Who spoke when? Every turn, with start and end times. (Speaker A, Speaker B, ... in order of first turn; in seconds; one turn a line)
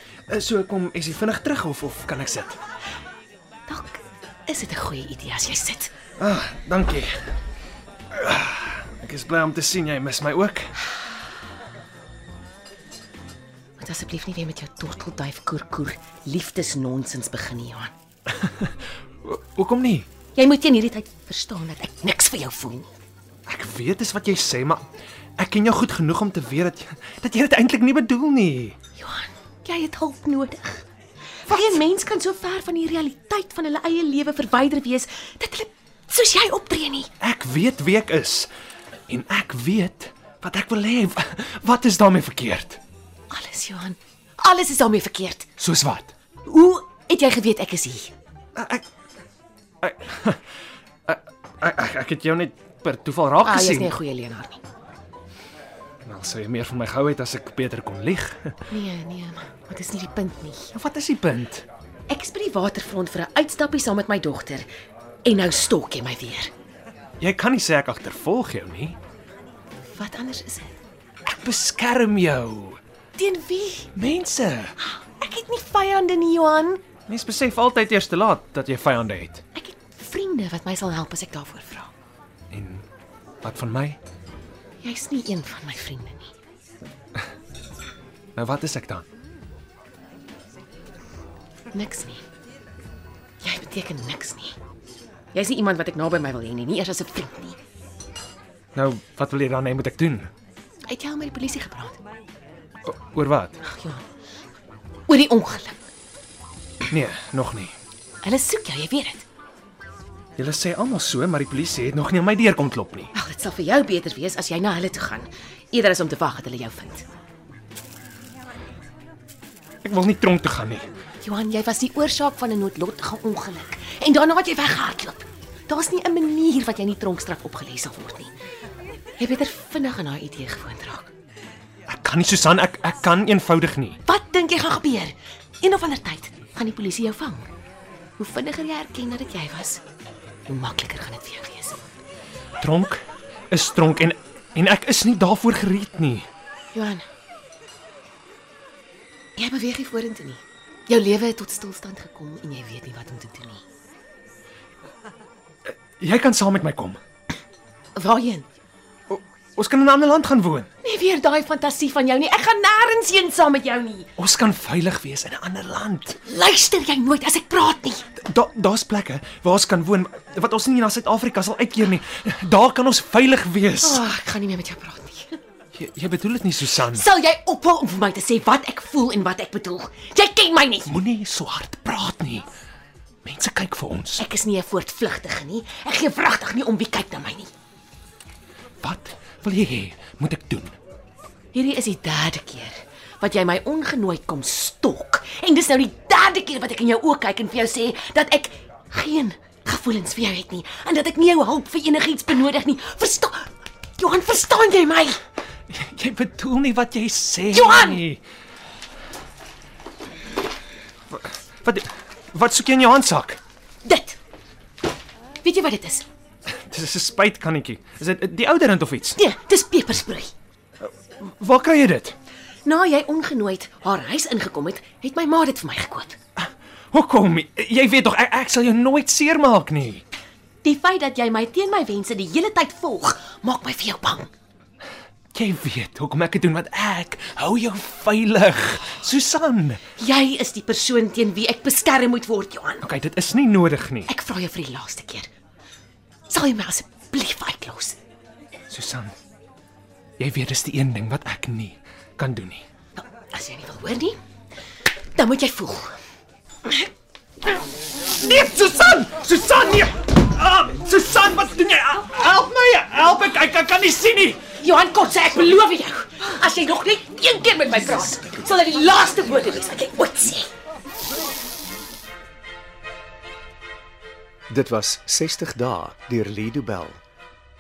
Speaker A: 0.3-2.6
Speaker B: 3.7-5.9
Speaker A: 6.2-7.2
Speaker A: 8.1-10.8
Speaker B: 13.8-17.9
Speaker A: 18.3-20.1
Speaker B: 20.4-22.9
Speaker A: 23.5-24.9
Speaker A: 25.4-28.8
Speaker B: 29.0-30.8
Speaker B: 31.4-37.1
Speaker A: 31.5-31.8
Speaker A: 37.2-38.5
Speaker A: 39.1-42.8
Speaker B: 43.3-45.5
Speaker A: 45.6-46.1
Speaker B: 46.5-48.1
Speaker A: 48.6-48.8
Speaker A: 49.8-50.4
Speaker A: 51.1-53.9
Speaker B: 53.4-54.6
Speaker A: 56.0-58.6
Speaker B: 58.7-60.7
Speaker A: 60.7-61.6
Speaker B: 62.1-64.7
Speaker B: 65.2-66.5
Speaker A: 67.2-69.0
Speaker B: 69.9-70.8
Speaker A: 71.3-72.8
Speaker B: 73.2-73.9
Speaker A: 74.0-74.8
Speaker B: 74.8-76.8
Speaker A: 77.1-79.4
Speaker B: 79.5-81.9
Speaker A: 82.5-82.8
Speaker A: 83.4-84.0
Speaker B: 84.8-86.3
Speaker A: 88.3-89.0
Speaker B: 91.7-92.2
Speaker B: 93.4-94.6
Speaker B: 95.3-97.6
Speaker A: 98.7-100.3
Speaker B: 100.9-102.0
Speaker A: 102.8-103.6
Speaker B: 103.6-104.0
Speaker B: 105.1-105.8
Speaker A: 106.9-107.8
Speaker B: 108.2-109.2
Speaker A: 110.4-113.1
Speaker B: 113.1-117.0
Speaker A: 119.8-120.9
Speaker B: 121.2-128.3
Speaker B: 129.2-131.1
Speaker A: 131.9-134.0
Speaker B: 134.1-137.5
Speaker B: 138.2-139.8
Speaker B: 140.5-141.8
Speaker A: 142.6-146.3
Speaker B: 146.7-147.1
Speaker B: 149.4-153.6
Speaker A: 155.7-157.0
Speaker B: 157.9-158.5
Speaker A: 159.1-160.7
Speaker B: 160.8-164.1
Speaker A: 164.2-166.2
Speaker B: 166.2-168.0
Speaker A: 168.2-174.1
Speaker B: 173.8-175.4
Speaker A: 175.7-177.0
Speaker B: 176.8-180.9
Speaker A: 180.9-182.5
Speaker A: 183.2-184.2
Speaker B: 184.2-187.5
Speaker A: 188.8-190.8
Speaker B: 191.5-205.2
Speaker A: 205.7-208.2
Speaker B: 207.5-208.0
Speaker A: 211.1-213.4
Speaker B: 213.8-214.2
Speaker B: 215.4-216.1
Speaker A: 216.5-219.2
Speaker B: 219.2-220.3
Speaker A: 220.8-222.2
Speaker B: 222.7-226.2
Speaker A: 226.4-230.0
Speaker B: 230.6-234.3
Speaker A: 235.3-239.8
Speaker B: 240.0-242.9
Speaker A: 242.8-244.1
Speaker B: 244.1-245.3
Speaker B: 246.3-248.0
Speaker A: 248.7-249.1
Speaker A: 250.2-252.7
Speaker B: 253.0-254.2
Speaker B: 255.1-256.0
Speaker A: 258.0-264.4
Speaker B: 264.6-270.5
Speaker C: 274.5-277.0